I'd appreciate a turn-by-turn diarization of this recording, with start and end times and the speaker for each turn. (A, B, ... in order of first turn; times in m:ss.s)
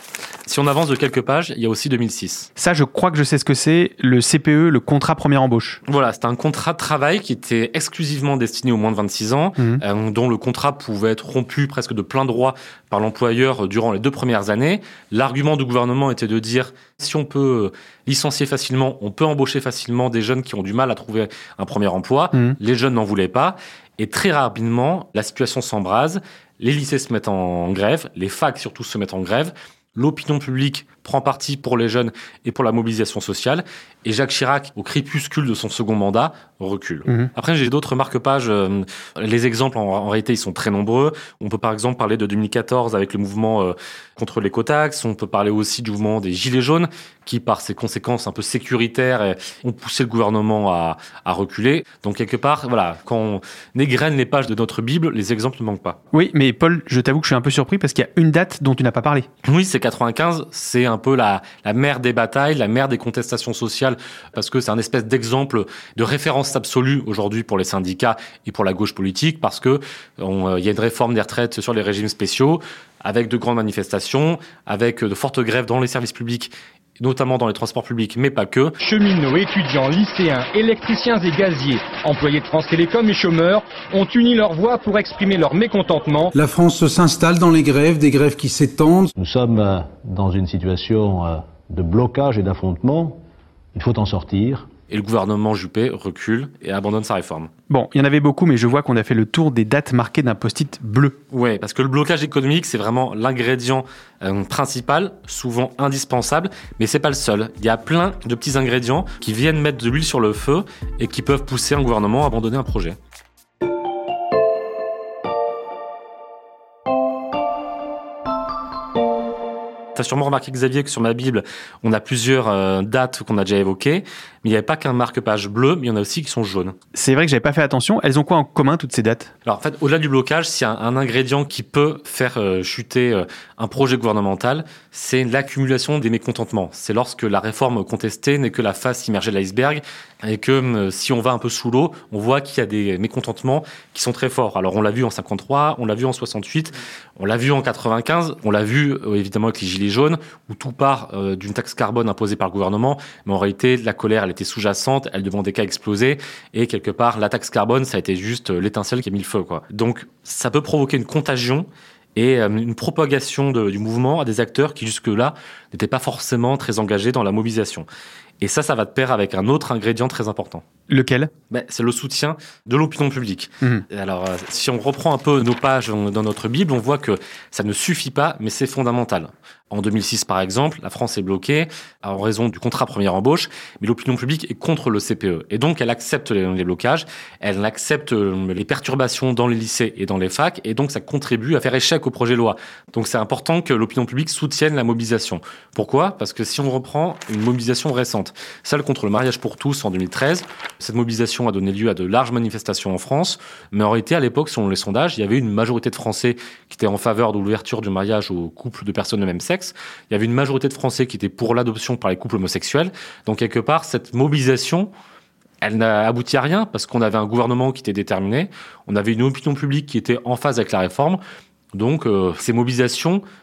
0:00.5-0:02.5 A
0:02.6-0:05.8 B
0:05.8-0:56.0 A
0:56.1-0:59.3 B
0:59.4-1:18.7 A
1:18.8-1:26.3 C
1:26.3-1:29.1 D
1:29.1-1:34.7 E
1:34.9-1:37.5 A
1:37.7-1:41.2 B
1:41.3-1:53.0 A
2:00.0-2:06.7 A
2:06.9-2:09.3 B
2:09.4-2:47.9 A
2:48.4-2:50.6 A
2:50.9-2:51.3 B
2:51.5-3:34.9 A
3:35.6-3:41.2 A
3:41.7-3:43.2 A